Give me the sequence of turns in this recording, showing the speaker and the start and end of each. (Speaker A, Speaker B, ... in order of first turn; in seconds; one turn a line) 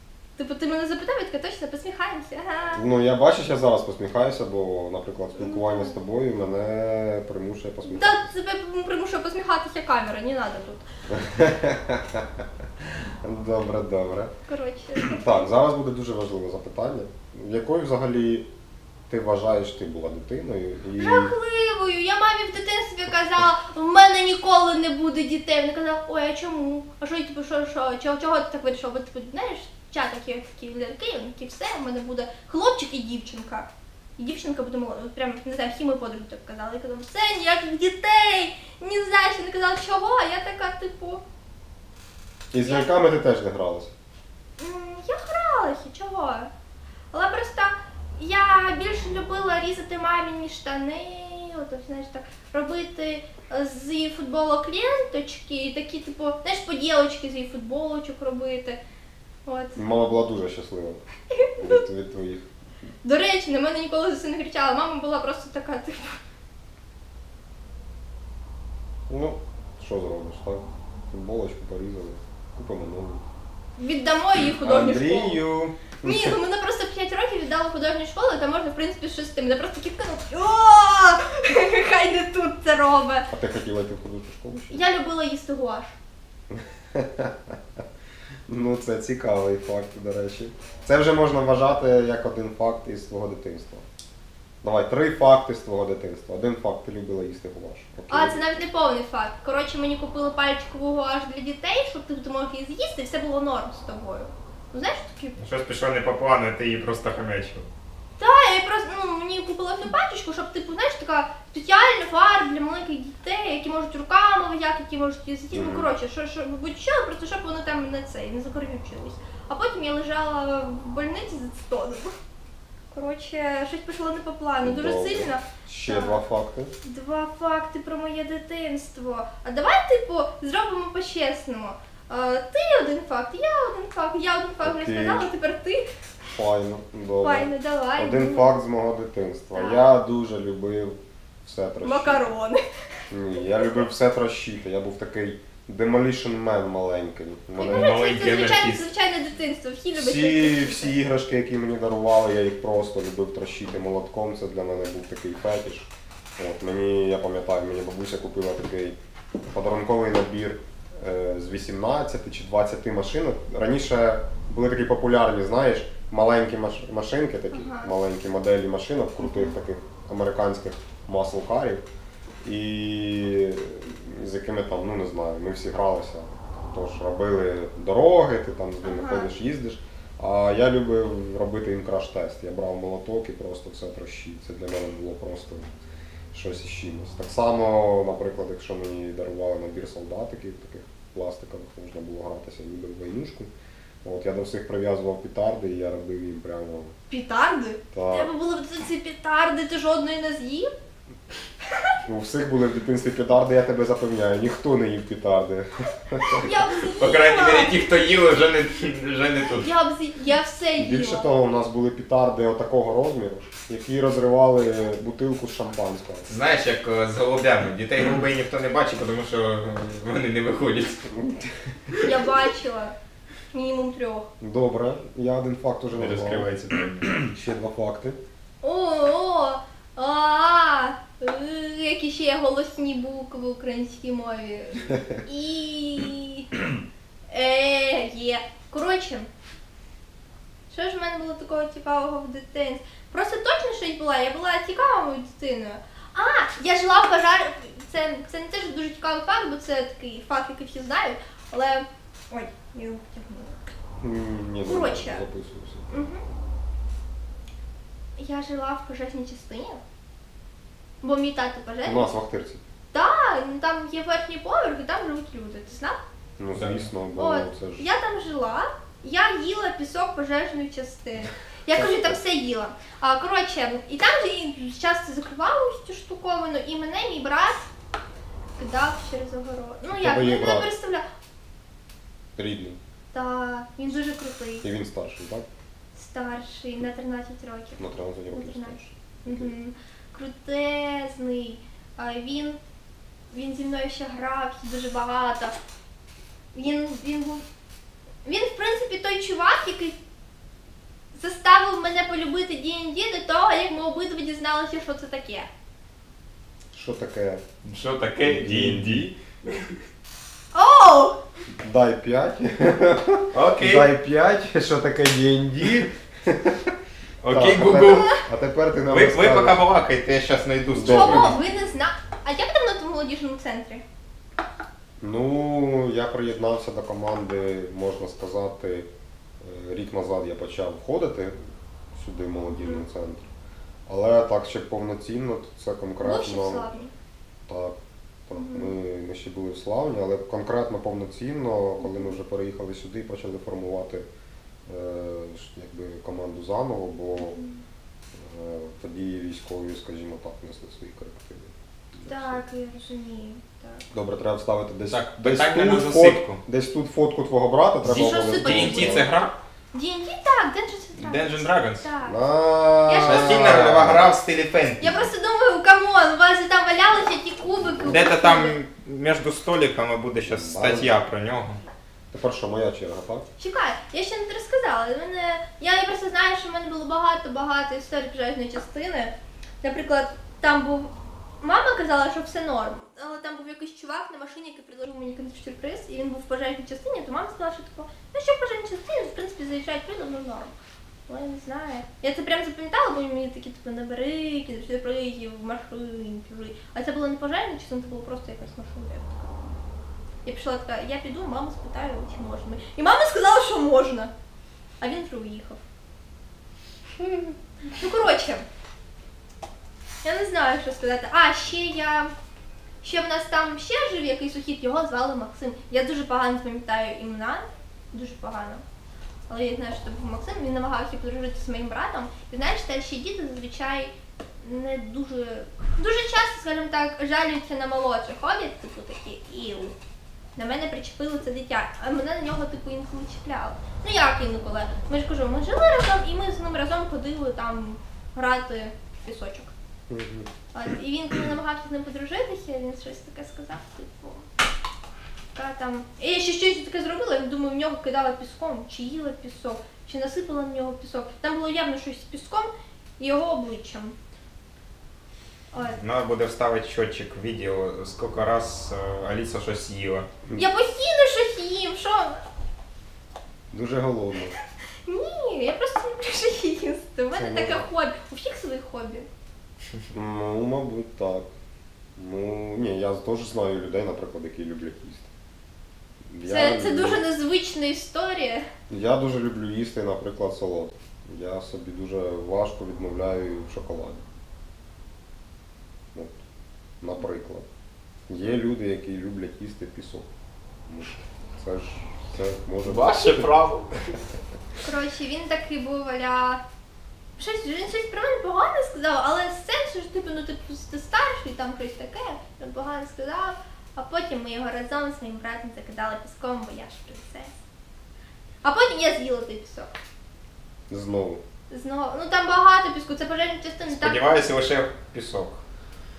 Speaker A: 0.4-2.8
Speaker B: 2.7-8.3
Speaker A: 5.3-5.9
Speaker A: 7.8-10.8
Speaker B: 11.1-12.4
Speaker B: 13.0-14.3
Speaker A: 14.5-15.2
Speaker B: 14.9-18.5
Speaker B: 19.1-21.3
Speaker A: 21.0-33.7
Speaker A: 34.2-41.2
Speaker B: 42.5-43.9
Speaker A: 42.6-42.9
Speaker A: 44.6-46.5
Speaker A: 47.1-58.8
Speaker A: 59.5-59.8
Speaker B: 59.8-61.0
Speaker A: 61.3-61.8
Speaker B: 61.6-62.5
Speaker A: 63.0-66.2
Speaker B: 69.1-73.2
Speaker A: 73.8-75.4
Speaker B: 74.4-76.4
Speaker A: 76.0-83.3
Speaker B: 83.3-84.8
Speaker A: 84.7-86.0
Speaker B: 86.5-87.8
Speaker B: 88.5-93.8
Speaker B: 94.6-98.4
Speaker A: 98.1-105.4
Speaker C: 105.3-107.7
Speaker A: 108.2-122.1
Speaker B: 115.5-115.9
Speaker A: 122.9-126.2
Speaker B: 124.6-126.7
Speaker A: 126.8-135.8
Speaker B: 134.6-135.3
Speaker B: 136.3-142.2
Speaker A: 137.2-138.5
Speaker A: 139.5-139.9
Speaker A: 141.8-142.6
Speaker B: 143.1-148.0
Speaker A: 147.6-150.9
Speaker C: 147.6-148.9
Speaker B: 149.9-171.8
Speaker A: 167.5-167.9
Speaker A: 169.2-169.5
Speaker B: 172.4-185.7
Speaker A: 178.8-179.3
Speaker B: 186.3-193.5
Speaker B: 194.0-196.9
Speaker A: 197.1-200.7
Speaker B: 197.9-198.3
Speaker B: 202.0-206.6
Speaker A: 206.2-207.8
Speaker C: 207.0-209.7
Speaker A: 209.6-211.3
Speaker B: 210.8-216.3
Speaker C: 216.3-221.1
Speaker A: 222.0-222.9
Speaker A: 223.5-224.3
Speaker B: 224.4-226.5
Speaker C: 225.9-227.3
Speaker B: 227.2-228.2
Speaker A: 228.6-236.5
Speaker B: 234.9-235.2
Speaker A: 237.3-239.3
Speaker A: 240.7-253.6
Speaker B: 254.0-256.1
Speaker A: 254.7-255.2
Speaker A: 255.9-256.2
Speaker A: 258.2-259.8
Speaker A: 261.0-262.1
Speaker B: 261.8-262.6
Speaker A: 262.9-266.0
Speaker B: 266.4-267.9
Speaker C: 266.5-266.9
Speaker A: 267.1-277.7
Speaker B: 271.7-272.1
Speaker A: 278.6-281.0
Speaker B: 279.9-280.7
Speaker B: 282.4-282.8
Speaker A: 283.1-284.7
Speaker B: 284.6-285.4
Speaker A: 285.9-287.8
Speaker B: 287.8-289.5
Speaker A: 288.3-292.6
Speaker A: 293.3-295.5
Speaker A: 296.5-297.4
Speaker A: 298.2-300.0
Speaker A: 301.1-305.5
Speaker B: 306.7-307.4
Speaker C: 307.6-309.8
Speaker B: 308.2-309.1
Speaker A: 310.5-311.2
Speaker B: 311.6-316.7
Speaker C: 313.3-313.9
Speaker C: 317.2-318.1
Speaker B: 317.3-319.6
Speaker A: 317.7-318.2
Speaker C: 318.9-321.4
Speaker B: 320.7-321.4
Speaker A: 320.8-323.8
Speaker B: 325.0-328.9
Speaker B: 329.4-331.4
Speaker B: 331.9-333.3
Speaker A: 332.5-332.8
Speaker B: 333.9-336.7
Speaker A: 336.0-336.9
Speaker B: 337.5-337.8
Speaker B: 338.3-344.0
Speaker A: 338.4-338.8
Speaker A: 341.8-342.2
Speaker B: 344.6-347.4
Speaker A: 347.2-347.6
Speaker B: 348.1-352.4
Speaker A: 352.1-353.8
Speaker B: 353.9-359.1
Speaker C: 354.9-356.4
Speaker C: 357.9-359.3
Speaker A: 357.9-359.1
Speaker A: 359.7-362.2
Speaker C: 361.0-361.9
Speaker B: 362.0-364.1
Speaker A: 362.9-363.6
Speaker C: 363.0-365.1
Speaker A: 364.8-368.6
Speaker B: 367.5-368.0
Speaker C: 367.9-371.6
Speaker B: 370.2-371.0
Speaker B: 372.1-373.2
Speaker A: 373.4-390.5
Speaker A: 391.1-399.5
Speaker A: 400.2-404.1
Speaker A: 404.8-405.6
Speaker A: 407.0-408.4
Speaker A: 410.0-412.1
Speaker A: 412.8-418.6
Speaker A: 419.3-429.7
Speaker A: 430.4-439.5
Speaker B: 439.9-440.3
Speaker A: 440.5-444.2
Speaker A: 445.3-453.9
Speaker A: 455.5-455.8
Speaker C: 455.8-460.1
Speaker A: 460.4-462.2
Speaker B: 463.5-464.4
Speaker A: 464.8-469.1
Speaker B: 467.1-467.7
Speaker B: 469.9-471.3
Speaker B: 471.9-475.1
Speaker B: 476.1-477.0
Speaker A: 476.2-478.5
Speaker B: 478.7-484.1
Speaker B: 486.8-487.4
Speaker B: 488.1-490.1
Speaker B: 490.7-493.3
Speaker C: 492.6-494.0
Speaker A: 494.6-496.4
Speaker A: 497.2-507.3
Speaker A: 508.4-509.7
Speaker B: 510.7-511.2
Speaker A: 511.5-514.1
Speaker C: 513.7-515.4